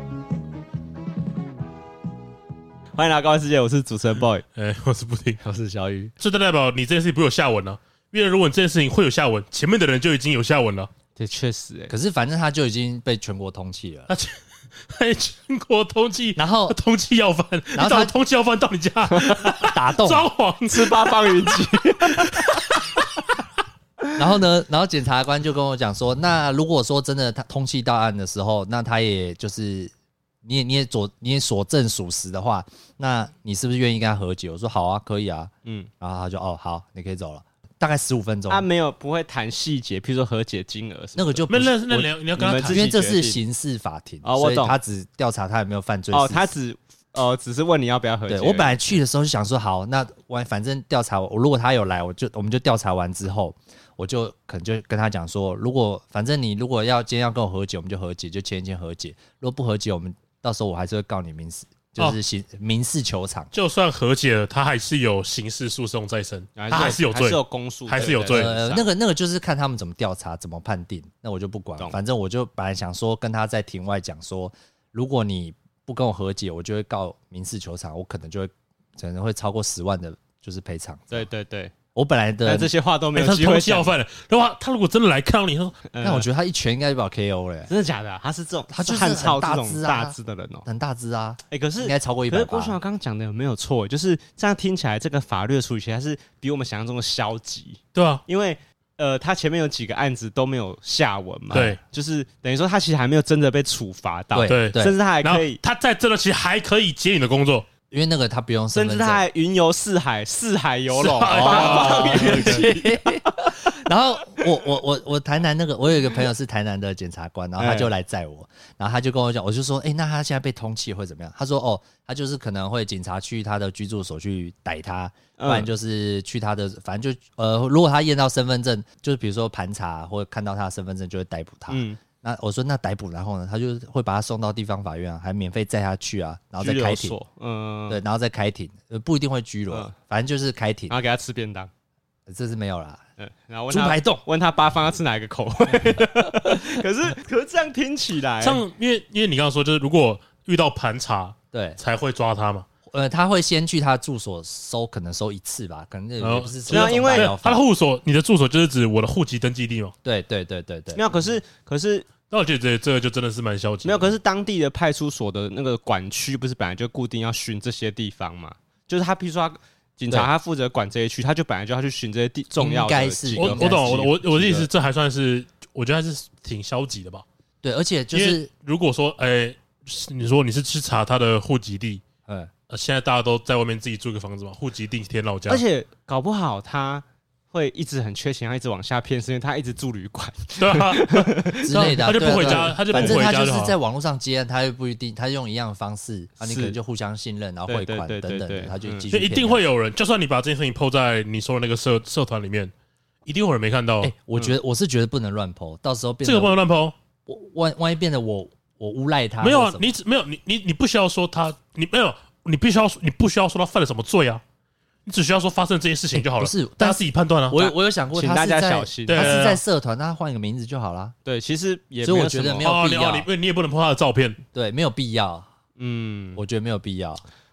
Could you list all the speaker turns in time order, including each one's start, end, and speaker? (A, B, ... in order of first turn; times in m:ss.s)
0:02.9-0:04.4 A
0:04.5-0:05.4 B
0:05.4-0:06.1 C
0:06.2-0:10.9 B
0:11.2-0:11.9 A
0:11.9-0:14.1 C
0:14.1-0:22.7 B
0:16.4-0:16.8 C
0:17.8-0:18.1 C
0:19.1-0:19.4 A
0:19.6-0:20.3 C
0:20.6-0:22.6 A
0:24.2-0:29.9 C
0:30.4-0:38.6 C
0:35.6-0:35.9 A
0:38.5-0:41.4 A
0:41.2-0:46.5 C
0:41.5-0:42.9 B
0:42.3-0:43.4 A
0:44.2-0:44.7 A
0:46.1-0:48.8 A
0:48.3-1:03.5 C
1:03.5-1:08.5 B
1:06.6-1:08.8 A
1:08.3-1:21.3 C
1:21.1-1:21.7 A
1:21.9-1:22.7 C
1:22.4-1:23.9 A
1:23.1-1:25.8 B
1:25.9-1:26.3 A
1:26.0-1:27.7 C
1:27.7-1:30.6 A
1:28.7-1:32.8 C
1:31.5-1:45.6 A
1:37.9-1:38.2 B
1:41.5-1:41.8 C
1:41.5-1:41.8 B
1:44.3-1:45.0 C
1:44.5-1:47.6 B
1:47.9-1:49.2 C
1:48.7-1:52.9 A
1:51.0-1:52.7 B
1:51.2-2:17.2 C
1:57.6-1:57.9 A
2:05.4-2:05.7 A
2:11.7-2:12.0 A
2:16.6-2:18.0 A
2:17.9-2:20.9 C
2:20.9-2:21.7 A
2:22.3-2:23.0 C
2:23.2-2:28.6 A
2:23.7-2:24.2 C
2:28.4-2:32.6 B
2:31.5-2:31.8 C
2:32.9-2:37.6 C
2:36.2-2:39.9 B
2:36.7-2:37.3 A
2:40.0-2:41.4 C
2:40.9-2:42.1 A
2:42.3-2:44.1 B
2:43.8-2:53.9 A
2:52.6-2:54.7 C
2:53.4-2:57.2 B
2:57.6-2:58.5 C
2:58.1-3:02.0 B
3:02.2-3:02.5 C
3:02.7-3:05.6 B
3:05.5-3:13.2 A
3:10.6-3:13.8 B
3:11.6-3:19.6 C
3:16.4-3:16.8 A
3:17.7-3:19.0 A
3:19.1-3:22.7 B
3:23.2-3:24.1 B
3:24.0-3:26.6 C
3:26.2-3:26.9 B
3:27.2-3:29.9 C
3:29.4-3:34.4 B
3:35.0-3:37.6 B
3:36.1-3:41.1 C
3:37.6-3:39.4 A
3:39.1-3:39.6 B
3:41.2-3:42.7 A
3:42.0-3:43.3 C
3:42.6-3:44.4 B
3:44.5-3:45.5 C
3:45.8-3:46.4 A
3:46.4-3:47.2 C